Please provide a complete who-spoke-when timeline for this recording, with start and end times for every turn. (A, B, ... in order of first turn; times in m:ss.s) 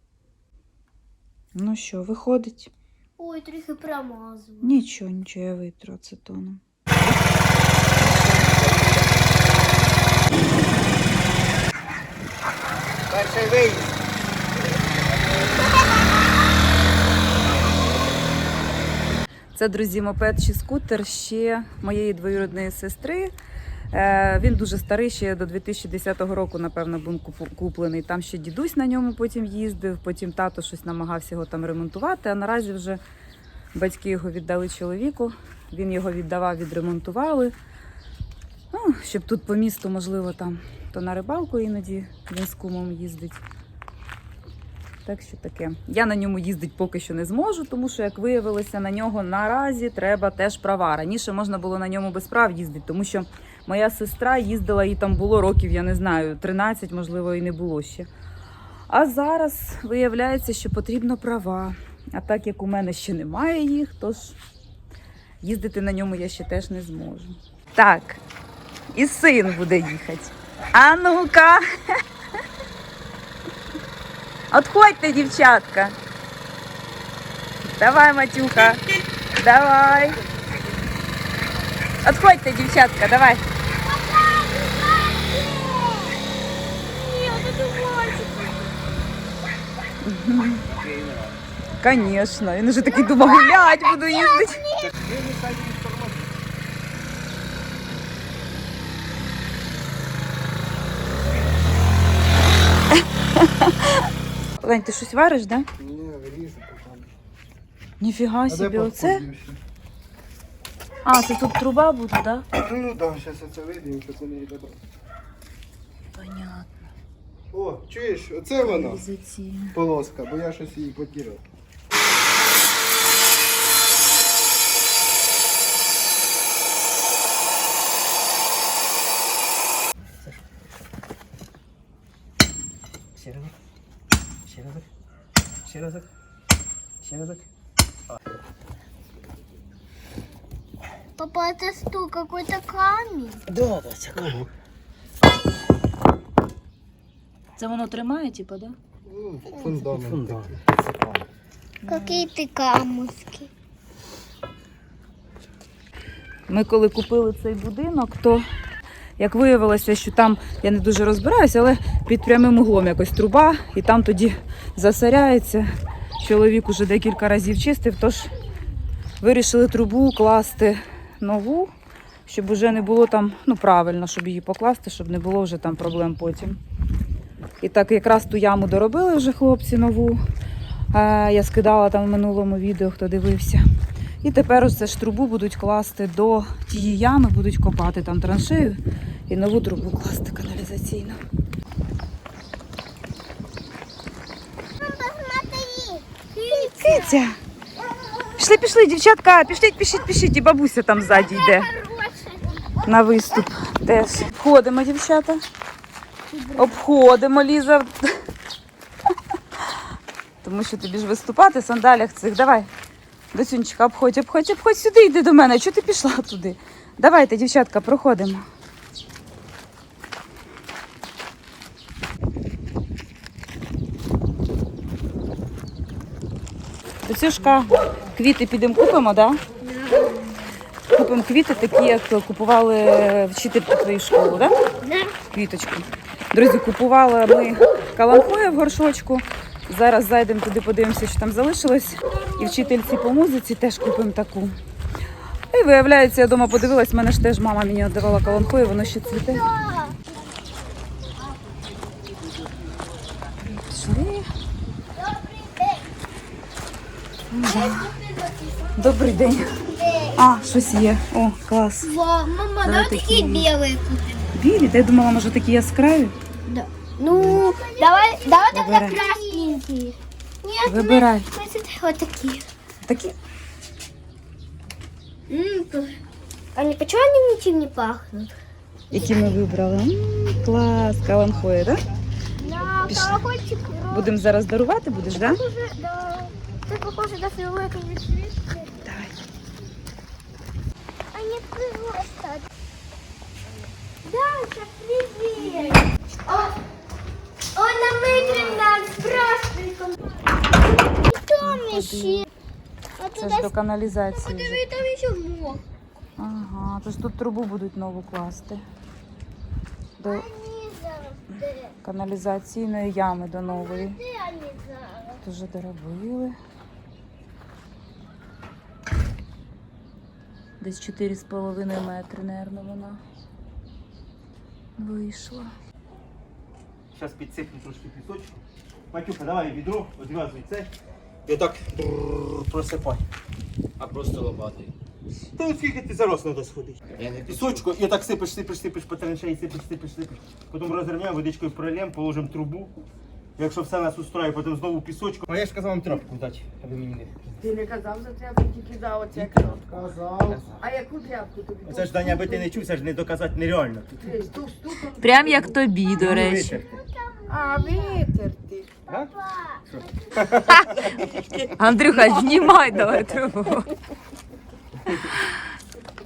0:01.6-0:02.7 A
0:03.2-0:04.7 B
0:04.6-0:06.6 A
0:08.0-0:08.4 A
0:08.4-0:09.0 C
0:13.1-0:14.1 C
0:19.6-0:23.3 A
0:23.9-0:33.0 A
0:33.7-0:37.6 A
0:38.7-0:43.4 A
0:45.0-0:58.1 A
0:58.9-1:04.4 A
1:05.4-1:08.2 A
1:08.9-1:11.6 A
1:14.5-1:16.0 A
1:17.8-1:18.8 A
1:19.4-1:20.2 A
1:22.0-1:23.4 A
1:23.7-1:26.2 B
1:26.9-1:28.8 B
1:30.0-1:30.6 A
1:30.7-1:31.4 D
1:31.8-1:34.7 A
1:33.1-1:34.9 B
1:34.8-1:36.4 C
1:43.4-1:43.8 A
1:44.6-1:45.7 A
1:45.8-1:47.1 E
1:48.0-1:49.2 A
1:48.5-1:49.6 E
1:51.0-1:52.5 A
1:52.6-1:54.8 E
1:56.2-1:56.8 A
1:57.5-1:59.0 E
1:58.6-1:59.8 A
1:59.7-2:01.4 E
2:10.1-2:10.5 C
2:13.2-2:13.6 C
2:14.5-2:14.9 C
2:15.6-2:16.1 C
2:17.0-2:17.5 C
2:21.2-2:23.4 B
2:23.5-2:24.5 C
2:27.6-2:28.8 A
2:29.0-2:30.6 E
2:29.6-2:31.3 C
2:31.8-2:32.3 A
2:31.9-2:33.5 B
2:36.5-2:38.5 A
2:39.2-2:45.7 A
2:46.2-2:48.3 A
2:49.2-2:51.7 A
2:52.3-2:56.6 A
2:57.6-3:00.2 A
3:00.9-3:03.6 A
3:04.2-3:11.2 A
3:14.8-3:17.2 B
3:16.8-3:17.4 A
3:17.8-3:18.5 B
3:18.4-3:21.7 A
3:21.2-3:22.8 B
3:22.8-3:25.4 A
3:26.3-3:26.8 B
3:26.6-3:28.1 A
3:30.4-3:32.7 A
3:33.3-3:38.4 A
3:47.0-3:49.4 A
3:50.9-3:54.6 A
3:54.8-3:55.1 B
3:55.3-4:04.6 A
4:05.5-4:09.5 A
4:08.2-4:10.0 B
4:13.4-4:14.3 A
4:15.0-4:15.9 B
4:17.3-4:17.9 A
4:17.4-4:20.4 B
4:18.8-4:19.6 A
4:20.2-4:22.0 A
4:21.8-4:24.3 B
4:22.6-4:23.5 A
4:24.3-4:26.2 A
4:26.5-4:32.4 B
4:27.8-4:29.6 F
4:28.5-4:29.0 A
4:30.6-4:31.3 A
4:32.8-4:33.2 A
4:35.3-4:36.0 B
4:36.6-4:38.3 B
4:38.9-4:41.8 A
4:38.9-4:39.3 B
4:42.4-4:44.1 B
4:42.9-4:43.2 A
4:43.9-4:45.4 A
4:45.0-4:48.8 B
4:48.8-4:49.2 A
4:51.1-4:52.5 B
4:54.0-4:56.5 B
4:57.6-5:00.0 B
5:00.7-5:02.3 B
5:01.4-5:02.3 A
5:03.0-5:03.5 B
5:03.2-5:04.6 A
5:04.1-5:05.6 B
5:06.2-5:08.6 A
5:10.0-5:10.3 A
5:10.0-5:11.8 B
5:11.8-5:14.0 A
5:13.5-5:15.2 B
5:15.2-5:16.4 A
5:20.6-5:23.0 A
5:24.8-5:25.5 A
5:26.9-5:28.4 C
5:28.9-5:30.7 C
5:31.3-5:33.0 C
5:33.8-5:34.7 D
5:35.4-5:42.7 C
5:37.0-5:37.6 D
5:43.4-5:47.4 C
5:47.4-5:49.7 F
5:49.1-5:49.6 C
5:49.6-5:50.5 E
5:50.2-5:50.6 C
5:50.6-5:52.7 F
5:51.6-5:54.0 C
5:54.0-5:55.6 F
5:55.0-5:56.6 A
5:56.0-5:56.8 C
5:56.1-5:58.1 B
5:57.3-5:58.8 F
5:58.9-5:59.6 B
5:59.7-6:01.0 C
6:00.5-6:02.6 F
6:01.6-6:03.7 A